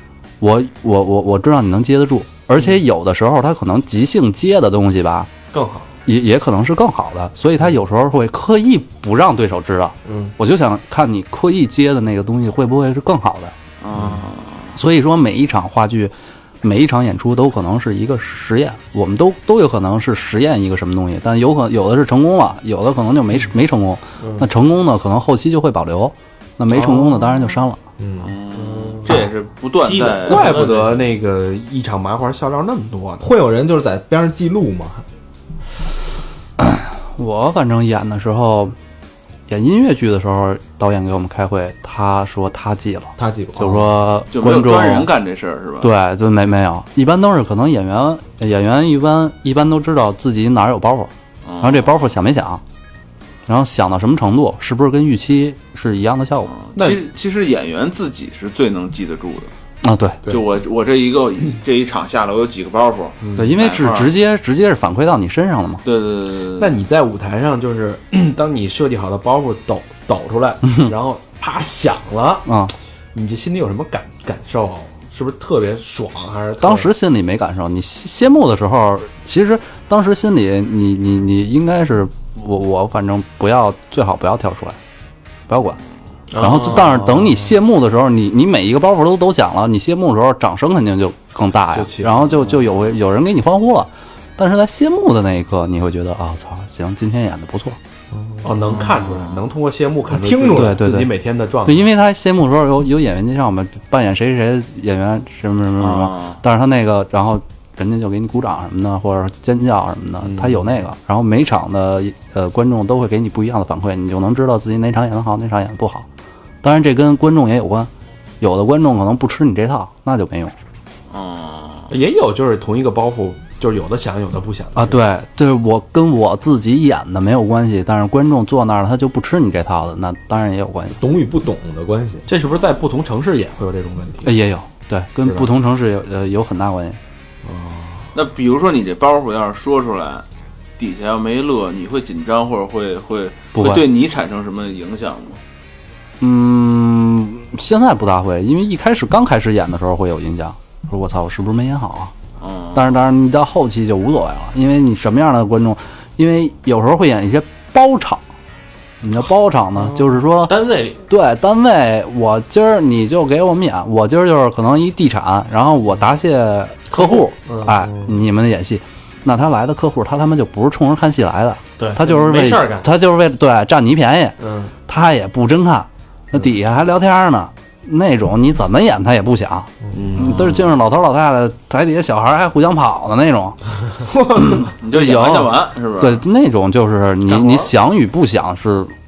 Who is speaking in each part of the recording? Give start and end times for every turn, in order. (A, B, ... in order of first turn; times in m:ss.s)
0:00.4-0:05.3 A
0:05.5-0:05.9 B
0:06.1-0:13.5 A
0:10.0-0:10.4 B
0:13.8-0:14.8 C
0:14.8-0:27.8 A
0:24.2-0:24.5 B
0:26.7-0:27.0 D
0:28.0-0:28.3 E
0:28.2-0:30.7 C
0:28.5-0:31.1 B
0:30.0-0:33.3 D
0:33.2-0:35.0 E
0:36.6-0:38.8 A
0:39.5-0:45.1 A
0:43.2-0:43.9 E
0:44.3-0:45.9 C
0:45.8-0:52.6 A
0:51.4-0:52.0 C
0:53.5-0:56.5 A
0:56.5-0:59.5 C
0:59.8-1:00.2 A
1:00.3-1:04.1 C
1:03.2-1:03.5 D
1:03.4-1:05.8 A
1:05.8-1:06.8 C
1:06.6-1:12.5 D
1:12.5-1:12.7 A
1:13.1-1:16.9 D
1:16.6-1:24.8 A
1:25.5-1:25.8 A
1:26.3-1:27.0 B
1:26.4-1:37.8 A
1:27.0-1:27.3 D
1:31.7-1:32.6 D
1:38.4-1:41.9 D
1:40.1-1:40.8 E
1:40.5-1:41.1 A
1:41.6-1:56.1 A
1:45.8-1:46.4 C
1:50.2-1:50.7 D
1:56.6-2:00.5 A
2:01.1-2:01.9 C
2:01.9-2:05.0 D
2:04.8-2:11.0 A
2:11.0-2:12.3 E
2:12.3-2:14.4 D
2:12.5-2:12.8 C
2:14.2-2:17.0 A
2:15.2-2:15.5 D
2:17.4-2:18.1 D
2:18.1-2:20.2 C
2:20.8-2:25.4 C
2:23.5-2:23.9 A
2:26.2-2:32.1 A
2:32.4-2:32.9 C
2:32.7-2:38.2 A
2:39.0-3:03.6 A
2:39.8-2:41.1 B
2:46.9-2:47.8 B
2:51.8-2:52.9 B
2:54.4-2:54.7 B
2:59.9-3:00.7 D
3:04.3-3:08.9 A
3:04.8-3:06.2 C